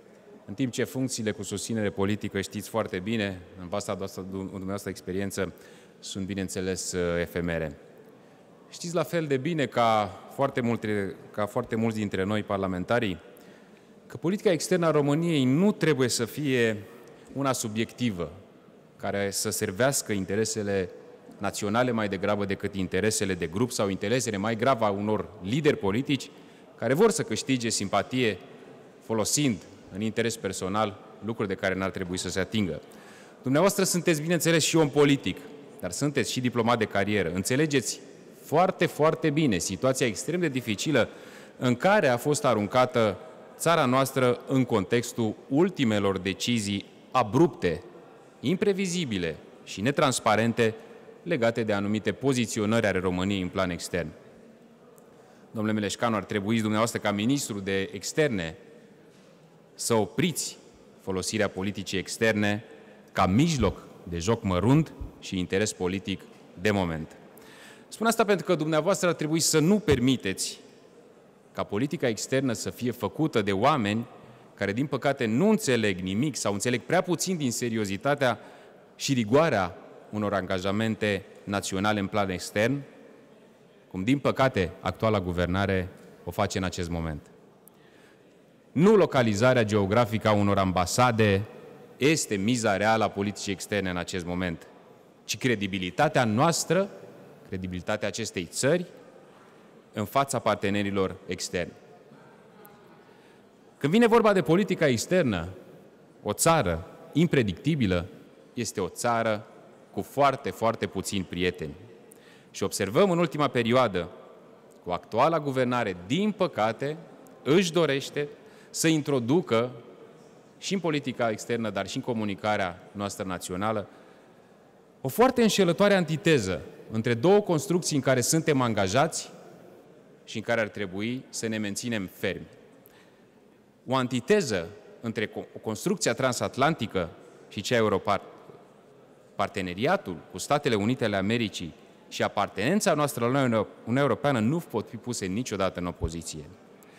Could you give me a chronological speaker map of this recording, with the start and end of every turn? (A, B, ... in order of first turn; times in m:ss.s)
0:00.5-0:07.8 A
0:08.7-0:13.2 A
0:14.1-0:18.3 A
0:19.0-0:28.4 A
0:29.0-0:32.8 A
0:33.4-0:47.8 A
0:48.4-0:54.1 A
0:55.5-0:58.6 A
0:59.8-1:07.2 A
1:07.9-1:10.6 A
1:11.5-1:18.4 A
1:19.0-1:22.8 A
1:23.9-1:27.3 A
1:28.7-1:31.5 A
1:32.0-1:34.7 A
1:35.2-1:36.9 A
1:37.4-1:38.9 A
1:39.9-1:41.7 A
1:43.8-1:45.5 A
1:46.2-1:51.7 A
1:52.5-1:54.1 A
1:54.8-1:59.7 A
2:00.6-2:03.9 A
2:05.0-2:09.3 A
2:10.2-2:12.5 A
2:13.8-2:18.4 A
2:19.4-2:26.5 A